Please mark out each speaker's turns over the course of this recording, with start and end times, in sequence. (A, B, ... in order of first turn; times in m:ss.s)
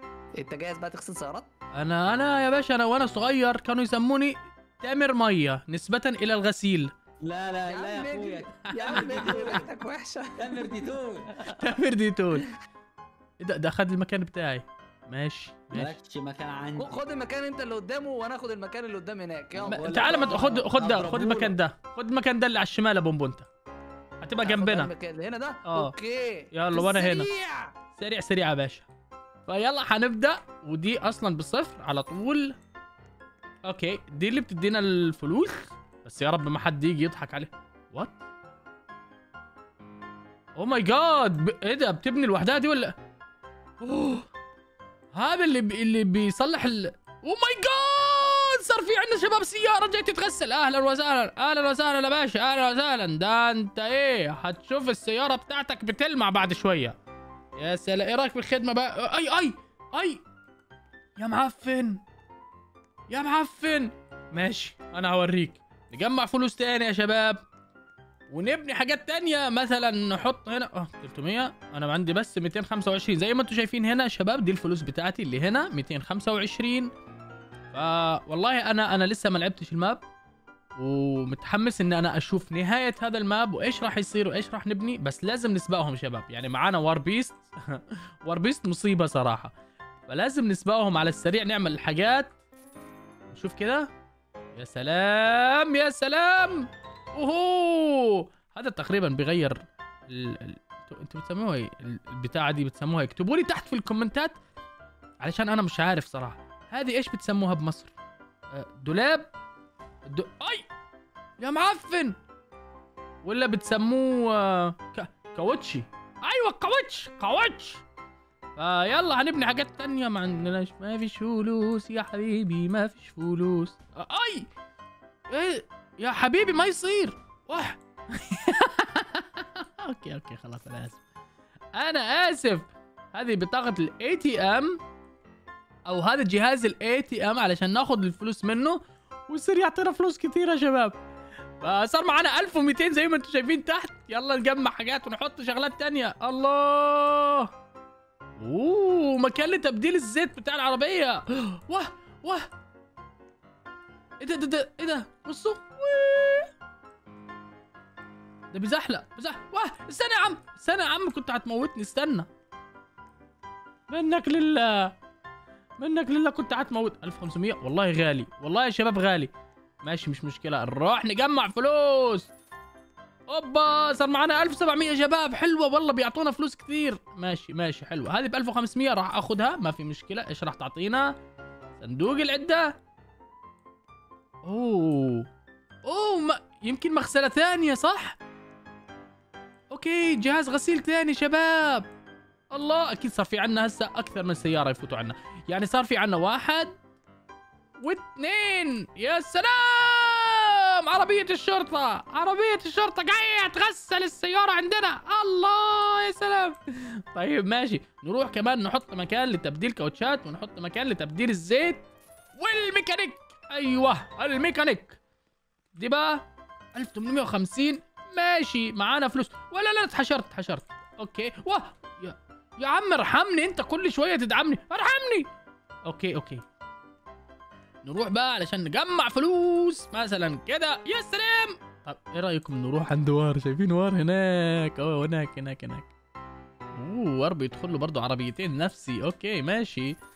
0:00.4-0:01.5 A
0:01.8-0:06.9 B
0:07.2-0:09.7 C
0:07.7-0:10.8 A
0:08.7-0:09.4 B
0:10.4-0:11.4 C
0:11.4-0:12.5 B
0:13.4-0:16.0 B
0:15.7-0:17.0 C
0:16.8-0:21.2 A
0:19.6-0:21.5 C
0:19.7-0:23.5 B
0:24.2-0:24.9 B
0:24.4-0:27.7 A
0:25.6-0:26.0 B
0:26.5-0:27.3 B
0:28.0-0:28.9 B
0:29.5-0:32.6 B
0:33.6-0:38.2 B
0:40.6-0:43.0 B
0:43.8-0:44.3 B
0:45.1-0:57.0 B
0:57.6-1:00.2 B
1:01.2-1:02.0 B
1:03.1-1:07.4 B
1:08.3-1:16.9 B
1:17.7-1:20.0 B
1:20.8-1:29.5 B
1:30.1-1:32.3 B
1:33.3-1:33.9 B
1:34.6-1:44.4 B
1:45.2-1:47.9 B
1:48.5-1:49.3 B
1:50.1-1:50.7 B
1:51.4-1:52.2 B
1:53.2-1:57.8 B
1:58.6-2:04.5 B
2:05.3-2:11.0 B
2:11.8-2:14.8 B
2:15.9-2:21.0 B
2:21.6-2:27.5 B
2:28.4-2:32.5 B
2:34.2-2:36.5 B
2:38.5-2:42.3 B
2:43.9-2:45.0 B
2:45.8-2:49.3 B
2:49.8-2:52.3 B
2:53.3-3:01.1 B
3:01.8-3:02.7 B
3:04.4-3:05.3 B
3:05.8-3:08.2 B
3:09.7-3:11.9 B
3:12.5-3:16.8 B
3:17.8-3:31.9 B
3:32.4-3:35.0 B
3:35.7-3:45.3 B
3:45.9-3:46.4 B
3:47.8-3:55.9 B
3:56.8-4:00.0 B